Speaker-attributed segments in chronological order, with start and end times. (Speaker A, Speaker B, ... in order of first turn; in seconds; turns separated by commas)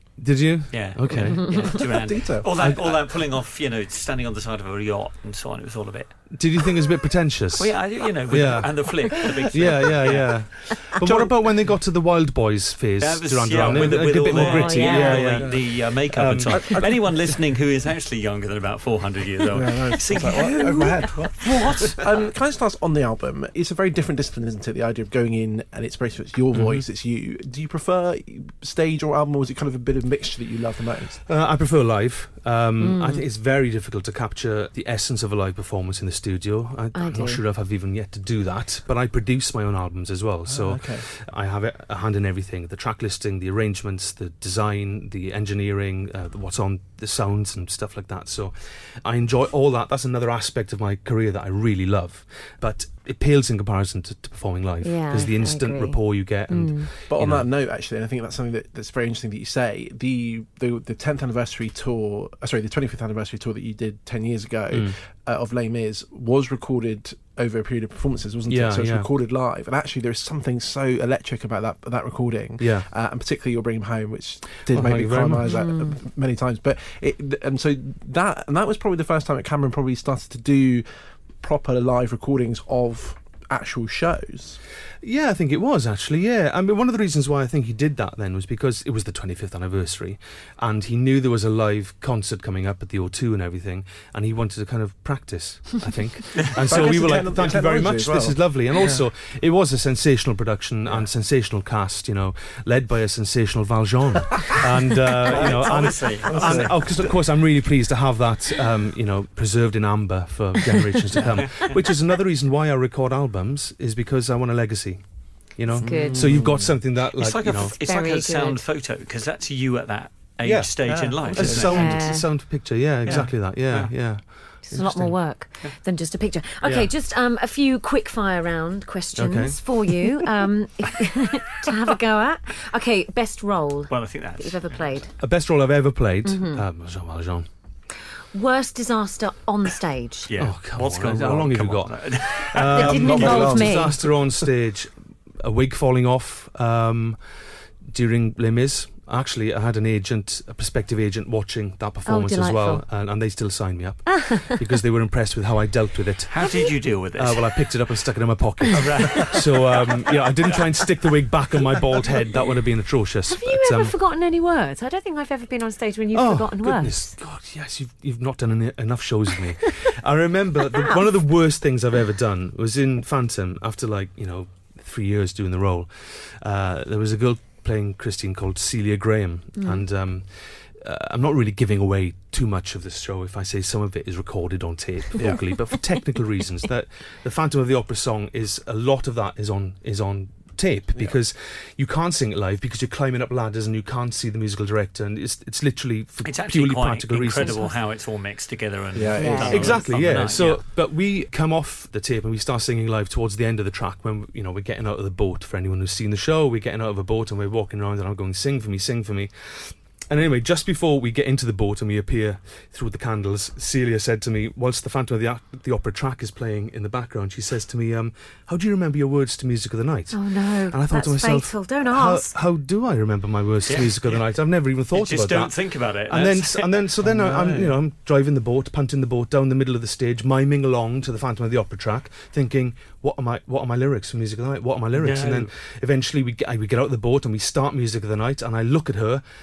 Speaker A: 0.2-1.9, Speaker B: 0.7-6.2, Speaker C: 1.8-2.5, Speaker A: 2.6-3.1, Speaker A: 6.3-16.9, Speaker B: 7.6-10.8, Speaker C: 11.0-11.4, Speaker B: 13.0-21.7, Speaker D: 14.4-15.2, Speaker C: 15.2-15.8, Speaker C: 16.5-17.4, Speaker C: 19.5-31.2, Speaker A: 26.5-26.8, Speaker A: 31.3-57.5, Speaker D: 32.8-33.2, Speaker D: 37.0-37.4, Speaker C: 40.5-41.1, Speaker D: 54.8-56.9, Speaker C: 57.1-80.9, Speaker A: 64.7-65.0, Speaker A: 68.5-69.1, Speaker A: 72.6-72.9, Speaker A: 74.7-75.5, Speaker D: 75.4-76.0, Speaker C: 81.4-84.6, Speaker A: 85.0-117.7, Speaker B: 96.4-96.9, Speaker C: 96.6-99.0, Speaker B: 105.2-106.7, Speaker C: 105.4-107.1, Speaker B: 111.2-111.7, Speaker D: 115.7-116.4, Speaker C: 115.8-116.8, Speaker B: 117.1-122.0, Speaker D: 117.7-118.6, Speaker A: 120.4-125.1, Speaker C: 120.9-121.8, Speaker D: 121.7-122.3, Speaker B: 123.0-123.9, Speaker D: 124.6-135.1, Speaker C: 124.7-125.1, Speaker A: 126.6-126.9, Speaker A: 129.2-129.9, Speaker B: 133.9-134.8, Speaker A: 135.2-137.5, Speaker D: 136.2-136.6, Speaker D: 138.3-140.3, Speaker B: 140.3-143.9, Speaker A: 140.4-147.2, Speaker D: 142.7-144.0, Speaker A: 147.9-163.9, Speaker D: 152.1-152.8, Speaker B: 156.3-157.5, Speaker B: 158.7-160.8, Speaker D: 163.3-167.2, Speaker A: 166.1-197.7, Speaker D: 179.6-179.8, Speaker C: 185.2-185.5, Speaker B: 196.2-200.6, Speaker D: 197.4-197.8, Speaker C: 198.9-199.9, Speaker D: 199.2-199.6, Speaker A: 199.5-239.2, Speaker D: 220.1-222.3, Speaker B: 223.7-224.3, Speaker B: 224.9-226.8, Speaker C: 227.0-227.8, Speaker B: 234.9-235.5